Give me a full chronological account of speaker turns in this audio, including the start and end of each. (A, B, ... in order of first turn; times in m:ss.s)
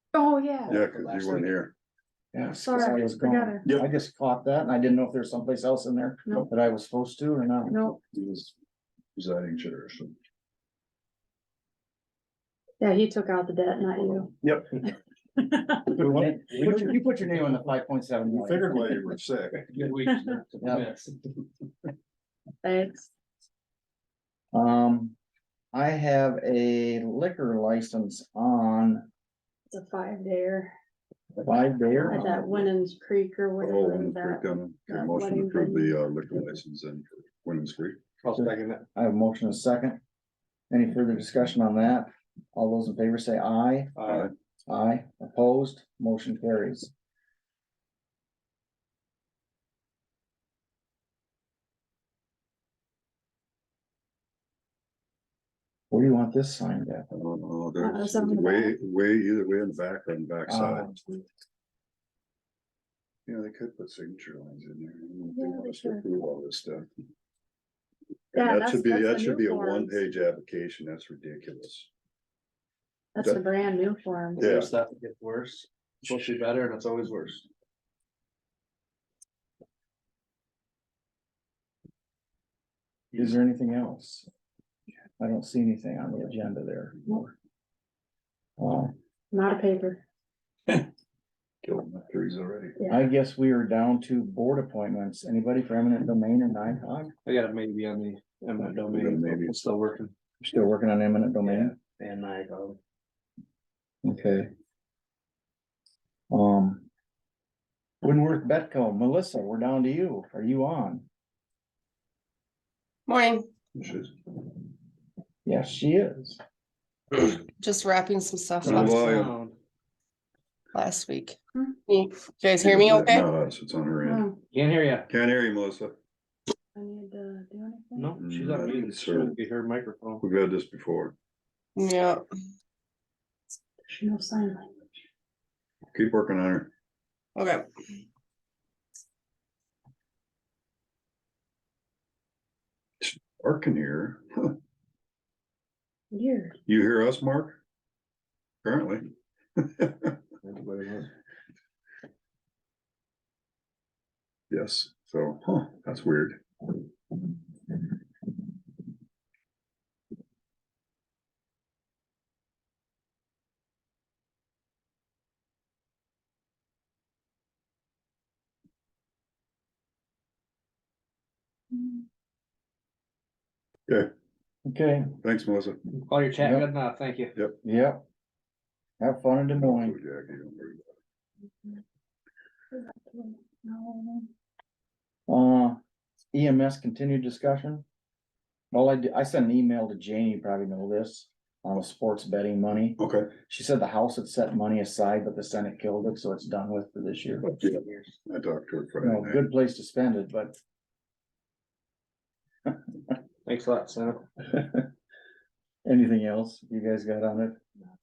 0:00.1-0:00.8 A
0:00.6-0:01.5 B
0:00.7-0:01.7 C
0:02.3-0:07.8 D
0:02.6-0:03.6 A
0:07.7-0:08.0 A
0:07.8-0:08.5 C
0:09.2-0:10.1 C
0:12.8-0:14.3 A
0:14.4-0:14.8 C
0:15.4-0:15.8 A
0:15.9-0:17.0 C
0:15.9-0:19.0 D
0:18.3-0:19.9 C
0:19.7-0:21.1 B
0:22.6-0:23.1 A
0:24.5-0:25.2 D
0:25.7-0:29.1 D
0:29.7-0:30.7 A
0:31.4-0:32.3 D
0:32.1-0:36.0 A
0:32.2-0:32.7 C
0:33.6-0:38.0 C
0:38.2-0:38.8 B
0:38.3-0:40.0 D
0:40.7-0:43.9 D
0:44.0-0:44.3 B
0:44.1-0:44.3 C
0:44.7-0:46.9 D
0:55.9-0:57.1 D
0:57.1-1:01.0 C
0:57.8-0:58.8 A
1:00.5-1:01.0 D
1:03.3-1:06.9 C
1:05.3-1:06.0 A
1:08.3-1:11.9 C
1:08.3-1:10.0 A
1:13.1-1:14.5 A
1:14.4-1:17.5 B
1:14.4-1:14.7 C
1:23.1-1:24.3 D
1:25.2-1:27.3 D
1:28.6-1:28.9 D
1:29.3-1:30.0 A
1:31.6-1:32.8 C
1:32.8-1:33.0 A
1:32.9-1:37.1 D
1:37.2-1:40.1 B
1:38.9-1:39.6 C
1:40.4-1:41.7 D
1:41.4-1:42.8 B
1:44.0-1:44.5 D
1:46.3-1:46.8 D
1:48.0-1:51.0 D
1:53.1-1:53.5 E
1:53.8-1:54.1 C
1:55.4-1:56.4 D
1:57.2-1:58.8 E
1:58.6-1:59.6 B
1:58.6-1:59.3 C
2:00.7-2:01.4 E
2:01.9-2:03.2 E
2:02.6-2:04.3 C
2:04.0-2:04.3 A
2:04.5-2:05.1 B
2:05.1-2:06.0 C
2:06.7-2:08.2 A
2:08.0-2:10.2 B
2:08.2-2:09.4 C
2:10.2-2:11.1 C
2:11.8-2:12.2 E
2:13.9-2:14.8 A
2:15.9-2:16.7 C
2:17.4-2:17.7 E
2:23.0-2:24.6 C
2:26.1-2:26.6 A
2:26.6-2:27.6 C
2:28.6-2:30.2 C
2:30.4-2:31.1 B
2:34.5-2:36.6 C
2:54.6-2:55.2 D
2:55.2-2:55.8 C
2:55.9-2:57.3 B
2:56.4-2:56.6 D
2:57.6-2:58.0 D
2:59.0-3:00.0 D
2:59.5-3:00.8 C
3:02.7-3:04.3 A
3:05.3-3:05.8 D
3:06.3-3:07.8 D
3:08.7-3:17.4 D
3:13.0-3:13.3 C
3:17.6-3:18.2 B
3:17.6-3:19.4 C
3:19.0-3:20.6 D
3:23.4-3:24.2 B
3:25.8-3:27.6 D